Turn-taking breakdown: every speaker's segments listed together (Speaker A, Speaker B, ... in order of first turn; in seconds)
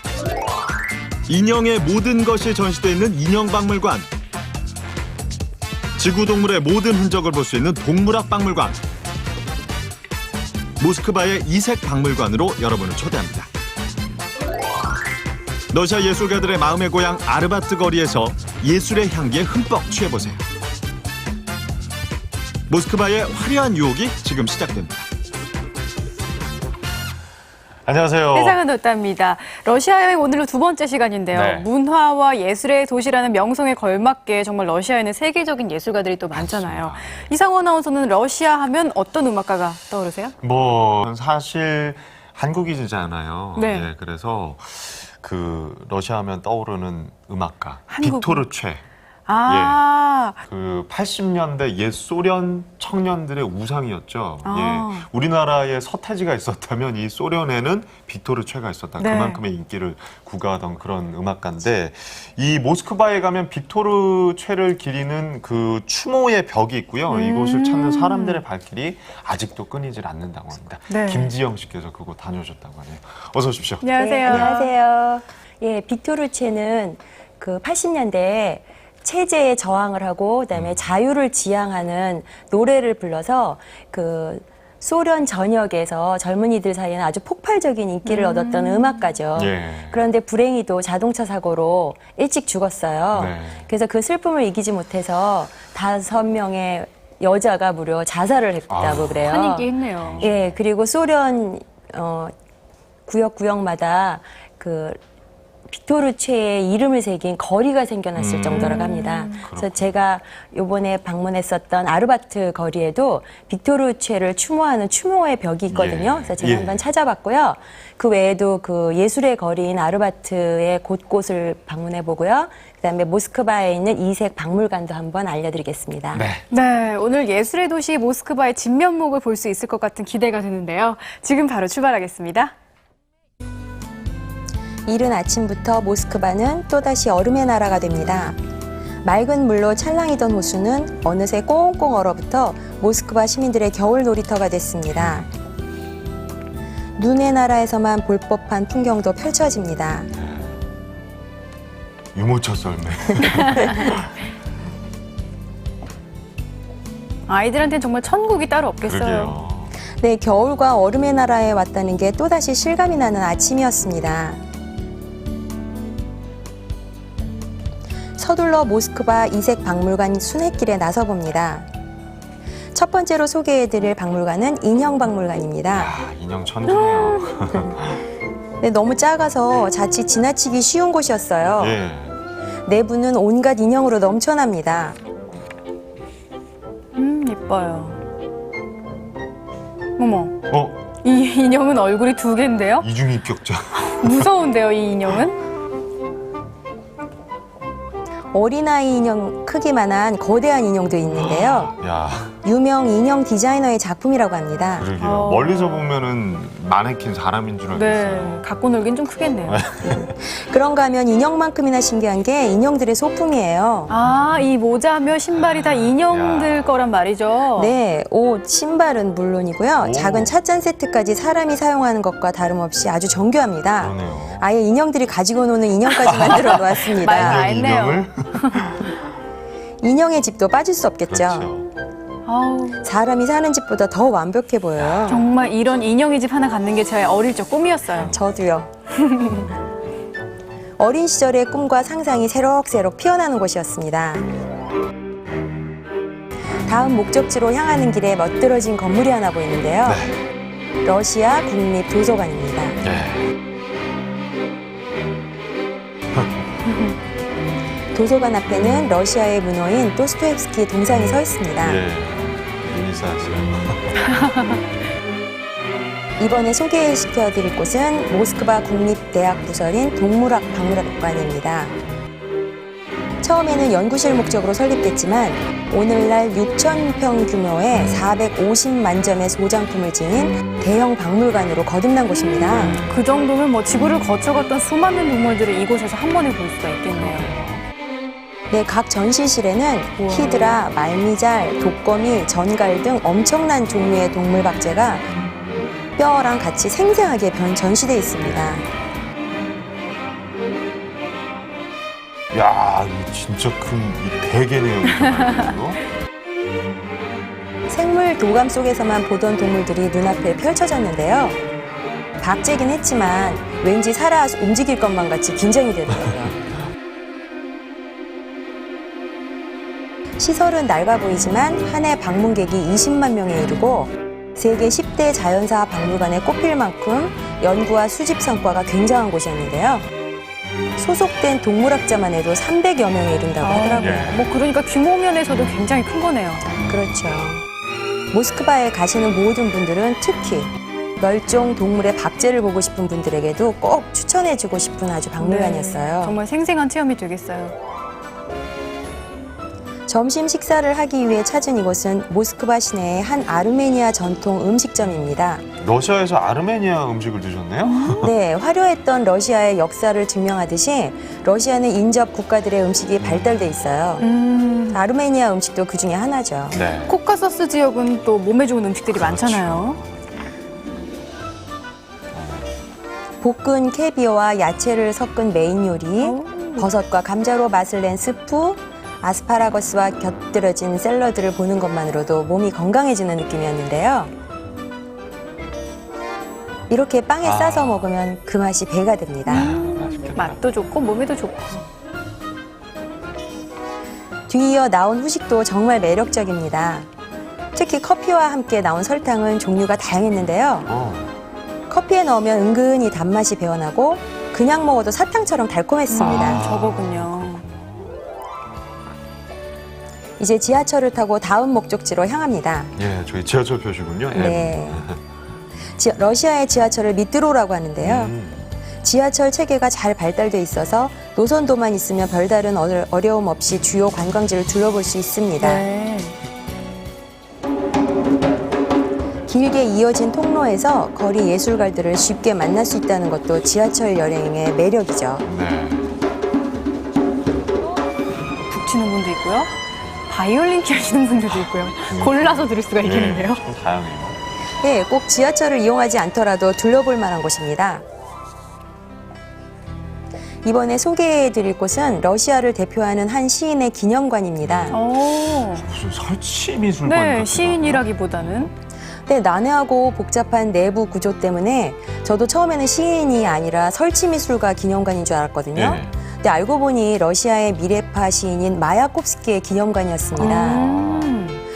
Speaker A: 1.3-4.1, 6.0-8.8, 10.8-13.5, 15.7-20.4, 22.7-25.0
Speaker B: 27.9-28.6, 31.3-31.7, 36.3-37.3, 40.4-48.8, 49.5-49.8, 50.4-74.5, 80.5-80.9, 89.3-90.1, 93.1-93.7, 98.7-99.3, 100.0-100.6, 108.1-110.0, 115.7-116.9, 126.1-126.5, 150.1-150.5, 152.1-154.1, 158.8-159.7, 175.7-178.1, 181.6-182.2, 190.5-190.8, 192.8-194.3, 201.1-202.4, 204.8-208.4, 209.4-210.2, 215.3-216.8, 219.8-220.3, 223.8-224.5, 226.0-228.9, 231.1-231.7, 234.8-235.2, 249.8-250.2, 252.8-253.3, 261.6-264.0, 282.5-283.0, 286.9-287.6, 298.2-298.7, 302.3-305.8, 333.8-334.2, 355.6-358.1, 363.0-363.6, 366.5-366.9, 368.9-369.9, 372.1-372.5, 387.2-387.9, 389.3-390.4, 400.7-401.1, 406.0-408.0, 412.8-415.0, 417.8-418.5, 435.2-436.0, 441.4-444.2, 455.6-458.5, 465.5-465.9, 470.2-471.2
Speaker C: 28.3-40.3, 43.5-43.9, 47.9-48.5, 49.3-50.4, 54.4-55.0, 59.0-59.4, 67.1-68.4, 70.9-71.3, 73.8-74.7, 88.1-89.1, 99.1-100.3, 108.5-109.4, 126.5-132.5, 157.3-159.3, 176.7-177.5, 186.9-188.0, 190.0-190.4, 191.0-192.9, 193.8-195.4, 205.0-205.9, 207.7-209.6, 213.9-217.7, 225.9-228.8, 232.2-232.8, 235.1-238.1, 239.0-239.5, 282.6-287.3, 290.0-290.6, 304.9-305.5, 333.4-336.5, 345.2-347.6, 357.6-358.1, 364.0-364.8, 366.9-369.8, 376.0-376.7, 389.3-391.7, 405.9-407.4, 425.4-426.1, 438.5-439.5, 440.1-443.4, 454.7-455.6, 456.9-458.5, 470.2-471.4
Speaker D: 74.0-99.7, 100.2-102.3, 103.1-105.0, 105.7-126.3, 134.8-138.4, 139.0-145.3, 146.9-150.1, 159.9-164.4, 168.2-171.7, 172.7-175.9, 178.6-181.8, 182.6-185.0, 198.3-201.7, 202.4-204.9, 209.8-213.9, 217.5-227.4, 229.8-231.5, 232.8-235.3, 238.0-238.7, 240.8-244.2, 246.7-250.0, 250.8-252.8, 257.9-261.8, 266.2-271.8, 273.2-282.8, 288.5-295.1, 296.0-298.7, 307.7-311.4, 312.2-316.4, 320.2-329.9, 330.8-334.1, 336.6-337.4, 338.1-346.2, 349.9-355.4, 358.0-364.1, 364.7-366.6, 373.2-384.1, 386.7-389.5, 394.3-396.9, 397.5-400.7, 401.7-406.4, 410.2-412.7, 414.1-414.9, 415.7-418.1, 418.8-425.7, 429.3-435.2, 444.6-447.8, 450.4-454.8, 459.1-470.7